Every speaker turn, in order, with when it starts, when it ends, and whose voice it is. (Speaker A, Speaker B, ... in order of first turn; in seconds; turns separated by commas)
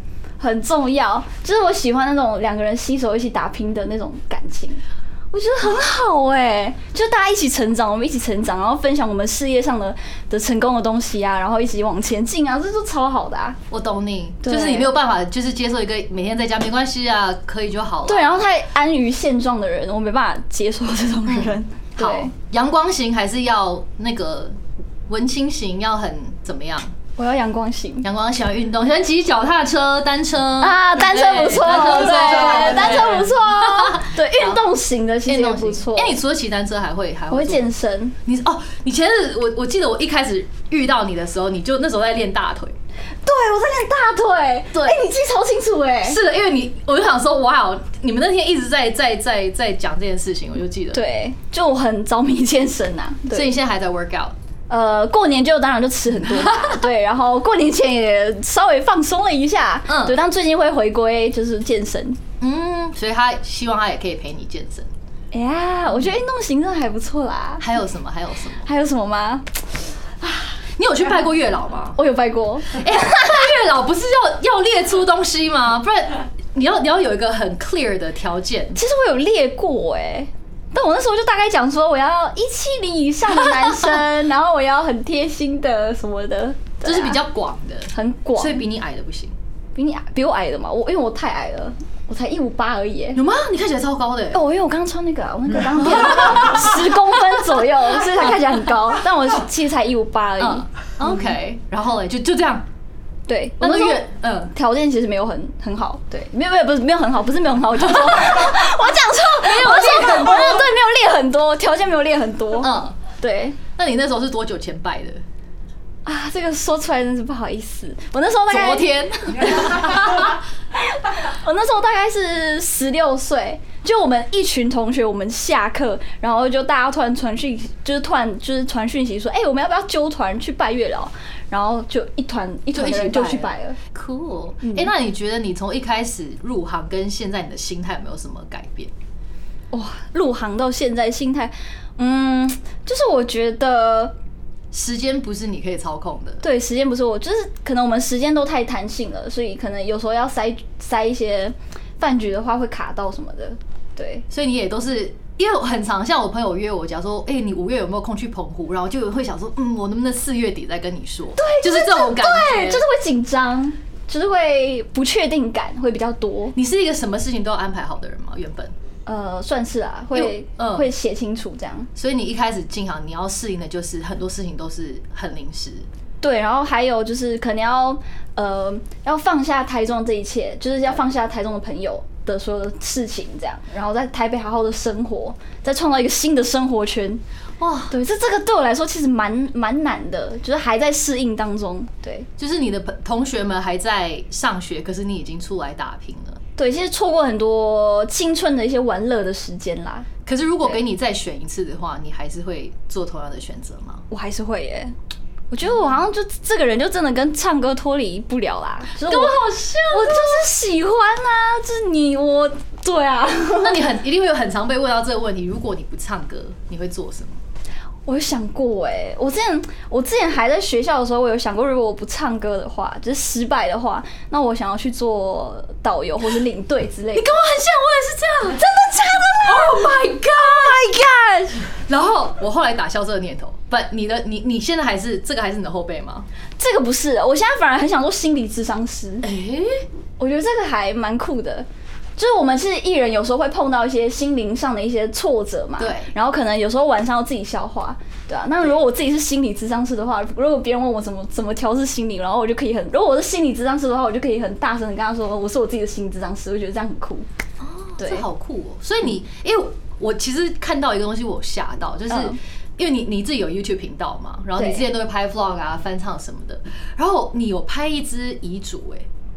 Speaker A: 0.4-13.6, Speaker B: 13.7-18.4, Speaker A: 14.4-14.9, Speaker A: 18.1-22.3, Speaker B: 21.3-24.6, Speaker B: 25.1-26.9, Speaker A: 27.2-28.1, Speaker B: 28.0-34.6, Speaker A: 30.6-36.2, Speaker B: 35.3-37.7, Speaker A: 37.3-38.1, Speaker B: 38.2-42.8, Speaker A: 43.2-46.2, Speaker B: 44.7-45.0, Speaker B: 46.0-51.0, Speaker A: 50.9-53.5, Speaker B: 53.3-54.4, Speaker A: 54.7-62.2, Speaker B: 56.4-56.8, Speaker B: 59.9-60.2, Speaker B: 62.4-64.9, Speaker A: 65.3-67.8, Speaker B: 67.6-68.7, Speaker A: 68.6-69.6, Speaker A: 70.2-70.6, Speaker B: 70.8-72.0, Speaker A: 72.0-73.4, Speaker B: 72.7-78.8, Speaker A: 78.8-87.2, Speaker B: 86.8-89.3, Speaker A: 87.9-88.7, Speaker A: 89.8-93.2, Speaker B: 93.1-94.4, Speaker A: 94.3-101.3, Speaker B: 95.8-96.9, Speaker B: 100.4-102.7, Speaker A: 103.3-113.6, Speaker B: 103.6-104.5, Speaker B: 109.4-110.7, Speaker B: 112.6-113.0, Speaker B: 113.8-115.2, Speaker A: 116.0-133.8, Speaker B: 118.5-120.4, Speaker B: 132.7-138.9, Speaker A: 134.6-134.9, Speaker A: 139.7-144.2, Speaker B: 144.7-146.4, Speaker A: 146.4-154.2, Speaker B: 154.3-162.8, Speaker A: 161.4-166.6, Speaker B: 166.5-168.7, Speaker A: 169.1-171.9, Speaker B: 170.1-170.9, Speaker B: 171.9-175.9, Speaker A: 176.2-187.2, Speaker B: 187.6-187.9, Speaker A: 187.9-192.3, Speaker B: 192.4-196.4, Speaker A: 196.6-200.1, Speaker B: 200.2-204.1, Speaker A: 204.1-204.9, Speaker A: 205.5-213.9, Speaker B: 209.0-210.5, Speaker B: 213.6-217.4, Speaker A: 218.1-227.3, Speaker B: 227.2-228.6, Speaker A: 228.5-231.6, Speaker B: 229.4-230.8, Speaker B: 231.9-236.3, Speaker A: 236.6-239.2, Speaker B: 239.2-239.8, Speaker A: 240.2-257.3, Speaker B: 245.8-246.1, Speaker B: 257.6-269.1, Speaker A: 258.0-258.3, Speaker A: 262.1-262.4, Speaker A: 264.6-264.9